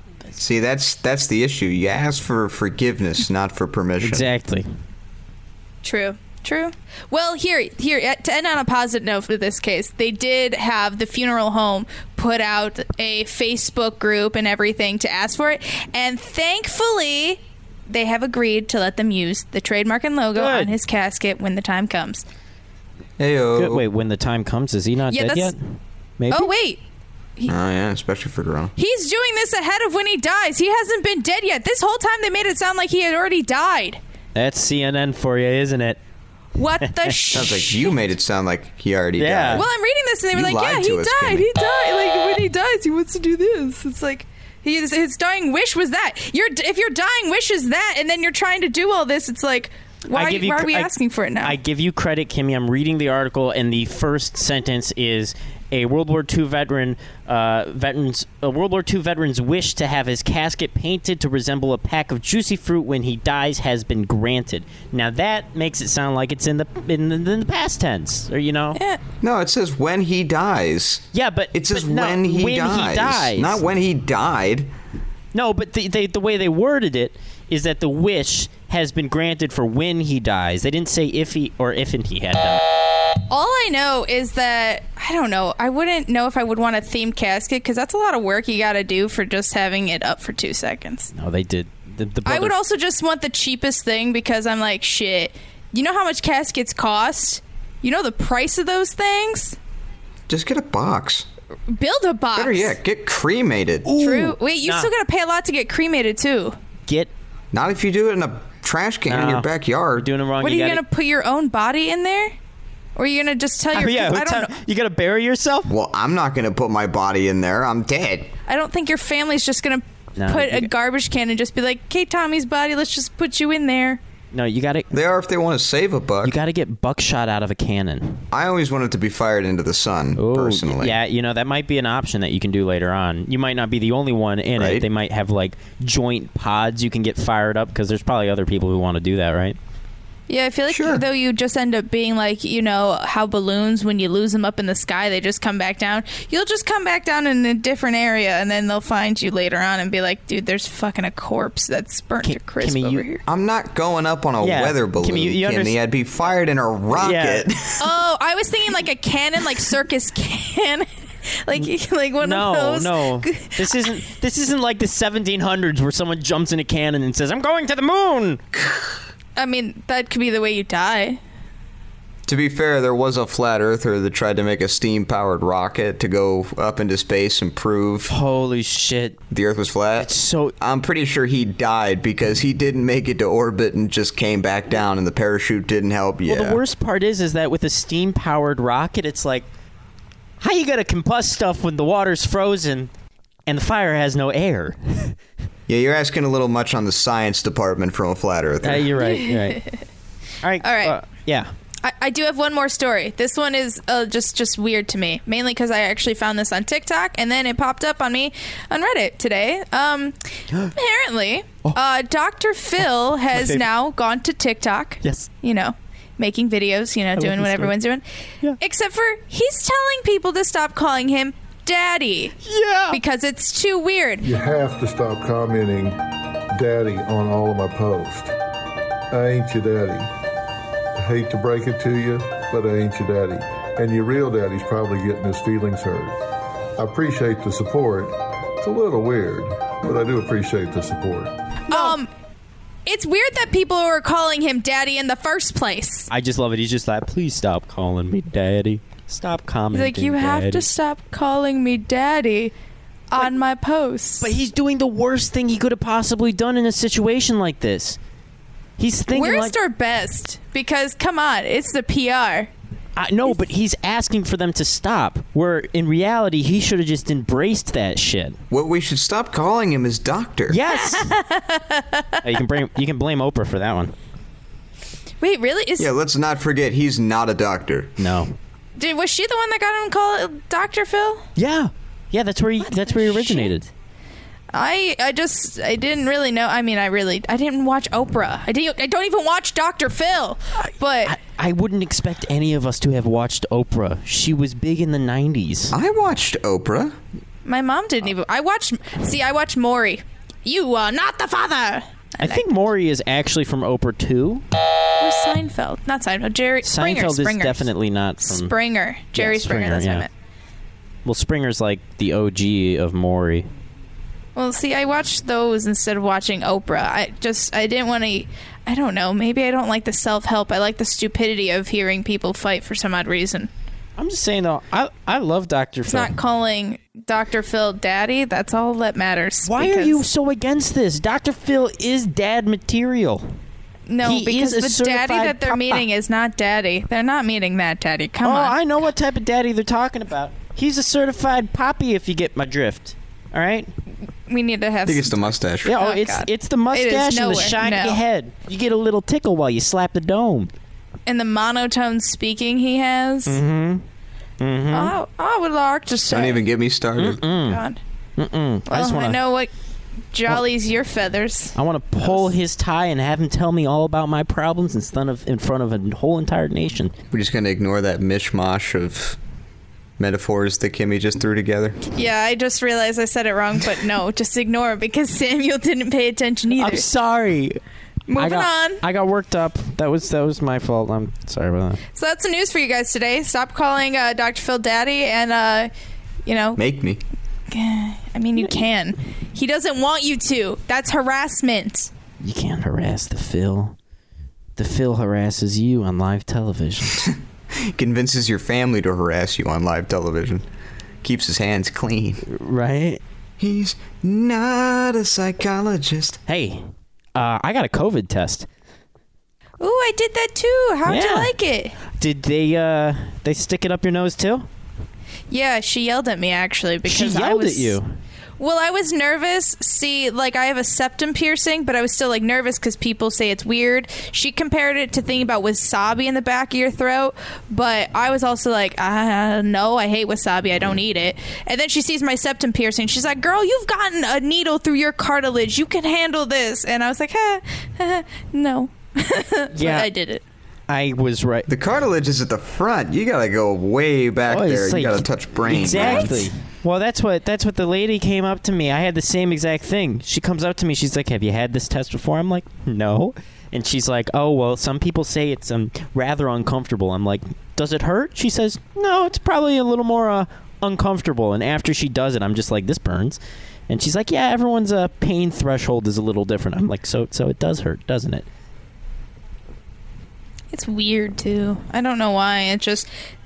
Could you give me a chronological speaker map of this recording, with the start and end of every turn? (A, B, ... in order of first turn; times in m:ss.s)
0:00.4-0:04.3 A
0:04.0-0:04.7 B
0:05.8-0:22.2 C
0:20.4-0:20.7 B
0:23.2-0:23.8 A
0:23.6-0:25.6 B
0:25.1-0:25.5 C
0:26.2-0:26.5 B
0:26.3-0:26.8 C
0:27.5-0:28.7 A
0:28.8-0:34.0 C
0:34.3-0:36.0 B
0:36.6-0:38.0 C
0:37.3-0:39.6 A
0:39.2-0:39.6 B
0:39.5-0:51.6 C
0:40.3-0:41.5 A
0:50.1-1:08.8 B
1:09.2-1:14.7 A
1:11.1-1:13.6 B
1:15.3-1:22.6 B
1:23.3-1:31.1 C
1:31.1-1:32.5 B
1:32.2-1:39.6 C
1:40.3-1:41.3 A
1:41.7-1:42.8 C
1:42.3-1:43.9 A
1:43.8-1:44.9 B
1:44.0-1:46.6 C
1:47.5-1:50.1 A
1:49.1-1:50.8 B
1:50.4-1:52.4 C
1:53.0-1:54.5 C
1:53.7-1:55.7 B
1:55.7-1:58.3 A
1:58.5-2:04.0 C
2:00.2-2:00.7 B
2:04.3-2:04.9 B
2:04.9-2:06.4 A
2:06.2-2:08.2 B
2:08.3-2:11.0 A
2:10.2-2:19.6 B
2:14.6-2:14.8 A
2:20.3-2:33.2 C
2:20.7-2:21.0 A
2:32.2-2:33.1 B
2:33.2-2:37.8 A
2:34.4-2:35.8 B
2:37.0-2:37.4 B
2:37.8-2:43.9 C
2:42.2-2:48.4 B
2:49.4-2:51.2 C
2:52.3-2:58.1 A
2:58.1-2:59.2 B
2:59.3-3:06.6 A
3:00.0-3:00.5 B
3:06.3-3:09.4 B
3:10.4-3:12.9 B
3:13.5-3:15.1 B
3:15.7-3:18.9 A
3:18.6-3:19.6 B
3:19.0-3:19.8 C
3:20.4-3:21.5 B
3:20.6-3:21.0 C
3:21.8-3:30.2 C
3:30.7-3:38.0 C
3:32.8-3:33.6 B
3:35.0-3:35.3 B
3:37.2-3:37.7 B
3:38.6-3:42.4 C
3:42.4-3:43.0 B
3:42.9-3:44.3 C
3:44.2-3:46.0 D
3:46.5-3:48.3 D
3:49.1-3:50.1 D
3:51.0-3:56.2 D
3:56.8-4:01.3 D
4:01.7-4:02.1 C
4:01.7-4:02.0 B
4:02.8-4:06.1 C
4:06.1-4:10.7 B
4:09.7-4:12.5 C
4:13.1-4:14.3 C
4:14.2-4:18.0 B
4:18.8-4:19.5 B
4:19.1-4:22.5 C
4:23.0-4:28.4 B
4:28.5-4:30.6 A
4:30.5-4:31.1 B
4:30.6-4:32.2 C
4:32.2-4:33.9 B
4:35.2-4:35.9 C
4:35.8-4:37.9 A
4:38.0-4:38.3 B
4:38.8-4:41.2 C
4:41.4-4:43.7 B
4:42.6-4:43.6 C
4:44.5-4:51.2 C
4:51.0-4:55.7 B
4:55.7-4:56.9 A
4:57.4-5:02.4 C
5:02.2-5:04.4 B
5:05.0-5:07.7 C
5:06.6-5:08.5 B
5:08.2-5:10.1 C
5:09.1-5:10.1 B
5:11.0-5:13.5 B
5:14.4-5:23.5 C
5:24.0-5:26.1 B
5:25.9-5:30.0 C
5:29.4-5:33.2 B
5:33.9-5:38.6 C
5:34.0-5:35.8 B
5:38.2-5:43.7 B
5:44.3-5:48.0 C
5:44.8-5:45.8 A
5:45.6-5:50.5 B
5:51.1-5:53.4 C
5:53.3-5:53.8 B
5:54.4-5:54.9 B
5:54.7-5:56.4 C
5:56.1-5:57.2 A
5:57.0-5:57.6 B
5:57.3-5:57.8 C
5:58.2-5:59.2 B
5:58.7-5:59.5 C
6:00.1-6:02.3 C
6:01.6-6:06.9 B
6:07.1-6:09.2 A
6:10.0-6:11.8 A
6:11.9-6:16.8 C
6:16.6-6:17.6 B
6:18.1-6:18.8 C
6:18.2-6:21.8 B
6:21.9-6:25.7 C
6:26.2-6:26.6 C
6:26.6-6:27.0 A
6:27.5-6:31.9 C
6:28.4-6:28.6 B
6:32.2-6:33.8 B
6:34.6-6:37.1 B
6:37.6-6:40.4 A
6:41.0-6:42.2 A
6:42.3-6:43.0 B
6:43.4-6:46.2 A
6:46.3-6:48.5 B
6:49.6-6:51.8 C
6:50.8-6:51.3 B
6:51.9-6:54.5 B
6:55.3-6:57.8 C
6:56.8-6:57.9 B
6:58.4-7:20.2 C
7:19.5-7:19.9 B
7:20.7-7:21.5 B
7:21.5-7:26.3 A
7:24.3-7:48.2 B
7:25.7-7:26.2 C
7:50.5-7:52.9 C